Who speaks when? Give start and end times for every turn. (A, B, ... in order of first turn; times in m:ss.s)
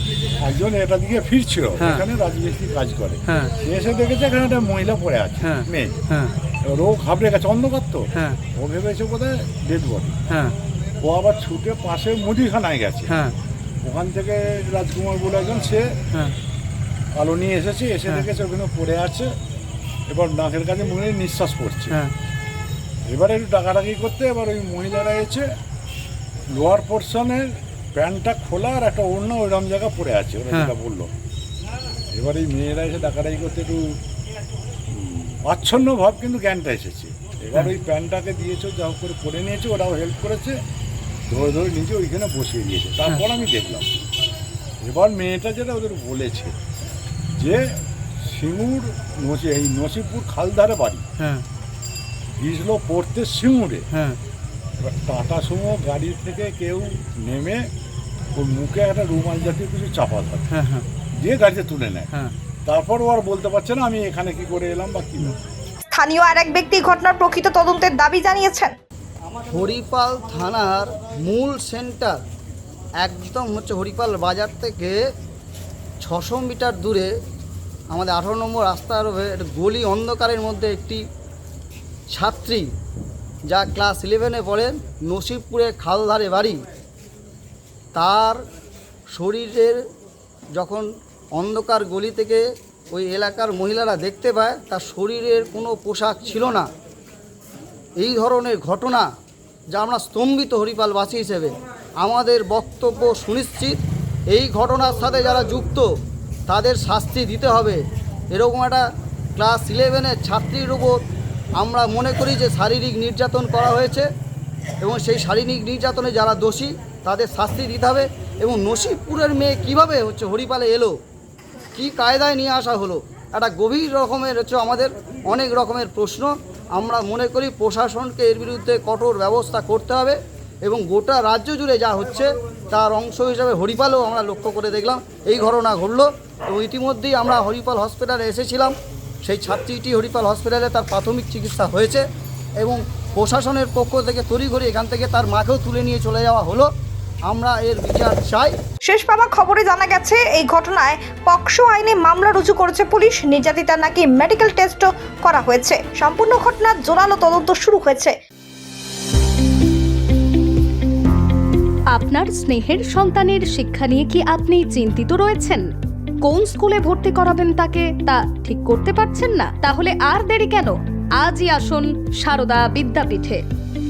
0:00.4-0:06.0 A
0:03.3-0:03.5 B
0:05.4-0:06.3 B
0:06.7-0:10.2 A
0:10.3-0:10.5 B
0:11.0-0:13.2 A
0:13.1-0:13.3 B
0:13.8-0:16.0 A
0:17.2-0:19.3 A
0:20.1-0:22.0 A
0:23.1-0:25.4 A
0:26.5-0:31.1 A
0:32.1-0:33.9 A
0:34.9-0:40.5 A
0:41.3-0:43.9 A
0:44.8-0:46.5 A
0:47.4-0:47.6 A
0:48.2-0:51.0 A
0:51.2-0:51.4 B
0:52.4-0:53.9 A
0:53.9-0:54.2 B
0:54.8-0:57.6 A
0:58.4-1:00.4 A
1:00.5-1:00.9 B
1:01.2-1:02.1 A
1:02.7-1:05.3 A
1:05.9-1:08.7 C
1:09.5-1:12.1 D
1:13.0-1:15.0 D
1:16.0-1:17.1 D
1:17.9-1:21.0 D
1:22.1-1:22.6 D
1:23.5-1:26.6 D
1:28.0-1:28.4 D
1:29.1-1:29.8 D
1:30.5-1:36.7 D
1:38.0-1:39.1 D
1:39.7-1:45.9 D
1:46.5-1:48.8 D
1:49.4-1:51.0 D
1:51.6-1:54.1 D
1:54.8-2:01.0 D
2:01.8-2:22.0 D
2:22.6-2:26.7 D
2:27.2-2:28.5 D
2:28.9-2:38.1 C
2:41.9-2:45.7 E
2:46.2-2:53.4 E